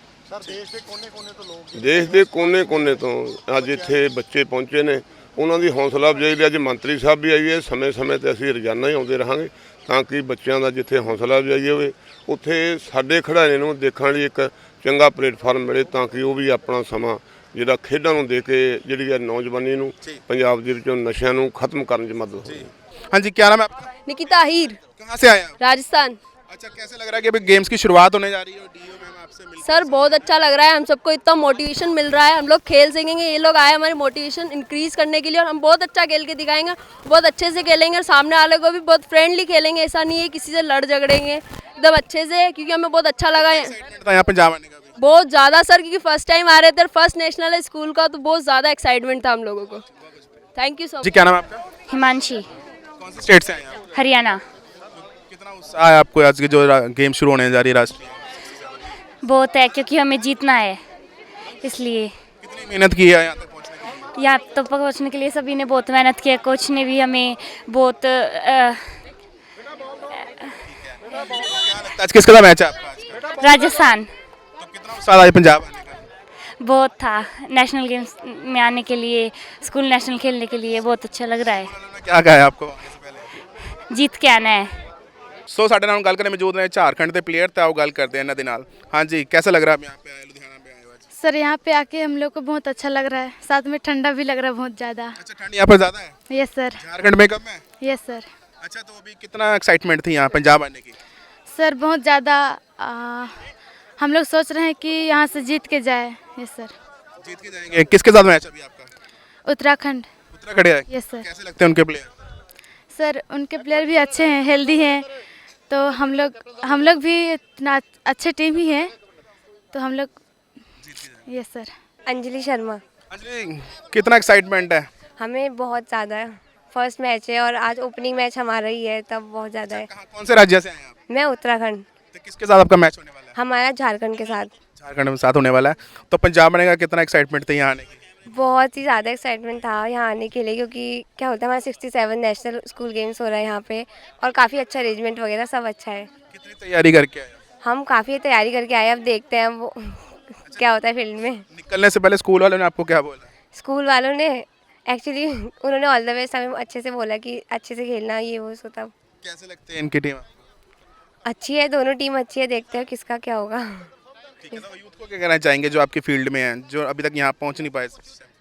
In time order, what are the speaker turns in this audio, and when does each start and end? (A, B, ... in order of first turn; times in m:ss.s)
0:01.7-0:22.6 A
0:22.4-0:23.9 B
0:24.0-0:24.8 C
0:24.9-0:25.6 B
0:25.6-0:26.2 C
0:26.5-0:30.3 B
0:29.6-0:43.7 C
0:43.4-0:44.9 B
0:45.0-0:49.8 C
0:50.5-0:51.2 C
0:51.0-0:51.6 B
0:51.9-0:52.5 D
0:53.0-0:53.8 B
0:53.9-0:54.4 D
0:55.3-0:58.4 B
0:59.2-1:00.8 D
1:01.6-1:02.1 D
1:02.4-1:03.8 B
1:04.1-1:08.8 D
1:10.7-1:13.2 B
1:13.4-1:14.1 D
1:14.6-1:16.0 B
1:16.6-1:21.7 D
1:21.6-1:23.3 B
1:23.9-1:24.7 D
1:25.5-1:31.0 B
1:31.2-1:35.1 E
1:35.2-1:36.1 B
1:36.3-1:36.8 E
1:36.8-1:37.6 B
1:37.8-1:38.2 E
1:38.6-1:40.9 B
1:41.5-1:43.5 E
1:44.0-1:46.7 E
1:47.2-1:48.9 B
1:49.4-1:50.1 E
1:50.3-1:52.1 B
1:50.9-1:51.3 E
1:52.9-1:55.1 E
1:55.7-1:58.9 E
1:59.7-2:00.1 E
2:00.8-2:01.2 B
2:01.2-2:01.7 E
2:02.1-2:02.8 F
2:03.1-2:04.9 B
2:05.2-2:09.9 F
2:09.7-2:10.9 B
2:11.1-2:11.8 F
2:12.1-2:13.3 B
2:13.3-2:14.5 F
2:14.7-2:18.0 B
2:18.3-2:26.1 F
2:26.3-2:27.4 B
2:27.6-2:31.4 F
2:31.5-2:33.3 B
2:33.5-2:38.9 F
2:39.2-2:40.2 B
2:41.2-2:43.9 F
2:44.4-2:48.3 B